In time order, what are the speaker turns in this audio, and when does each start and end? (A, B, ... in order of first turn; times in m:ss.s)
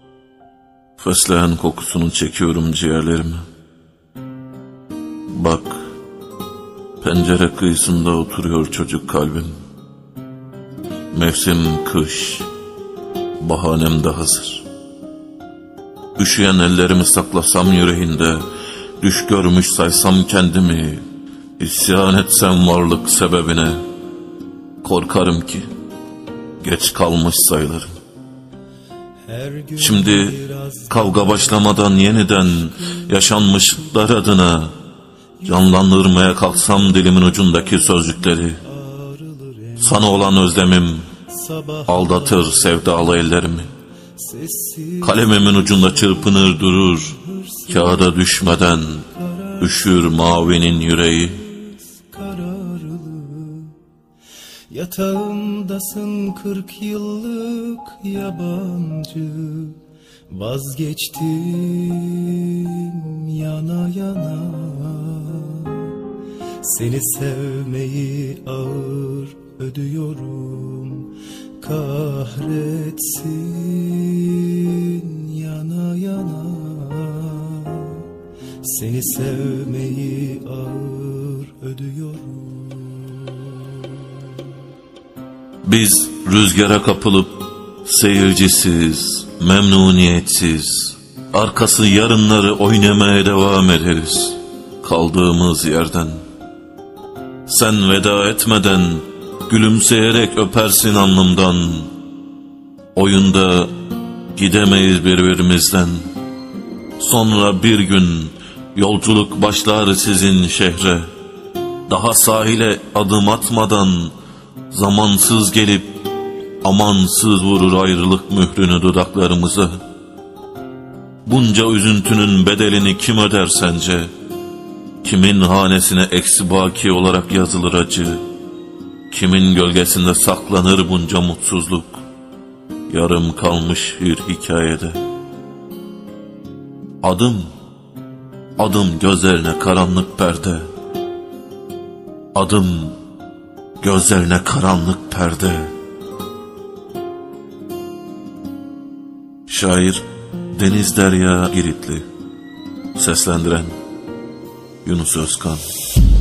0:01.0-0:03.4 A
0:05.3-0:05.8 A
0:07.0-0:09.5 A
0:11.1-0:12.5 A
0:13.4-0:14.6 A
0:16.2-0:18.4 A
0:19.0-0:21.0 A
0:21.6-0:23.8 A
0:24.8-0:25.6 A
0:26.6-0:27.9 A
0:29.3-0:33.9 B
0:29.8-0:30.4 A
0:30.9-0:34.7 A
0:35.4-0:38.6 A
0:35.4-0:40.3 B
0:39.8-0:41.0 A
0:41.3-0:43.4 B
0:41.9-0:43.7 A
0:44.2-0:48.2 B
0:45.0-0:47.1 A
0:47.7-0:49.0 A
0:49.1-0:53.7 B
0:49.6-0:51.4 A
0:54.7-0:59.8 B
1:00.3-1:06.0 B
1:06.6-1:18.1 B
1:18.6-1:24.0 B
1:25.6-1:36.2 A
1:37.5-1:41.9 A
1:42.9-1:43.7 A
1:44.3-1:46.0 A
1:47.0-1:51.1 A
1:51.9-1:54.1 A
1:54.7-1:56.0 A
1:56.6-1:59.8 A
2:01.2-2:04.1 A
2:05.0-2:08.2 A
2:09.1-2:12.0 A
2:12.9-2:15.0 A
2:17.0-2:17.5 A
2:18.6-2:20.6 A
2:22.3-2:22.9 A
2:23.8-2:25.7 A
2:29.5-2:32.0 A
2:32.9-2:33.7 A
2:34.8-2:35.6 A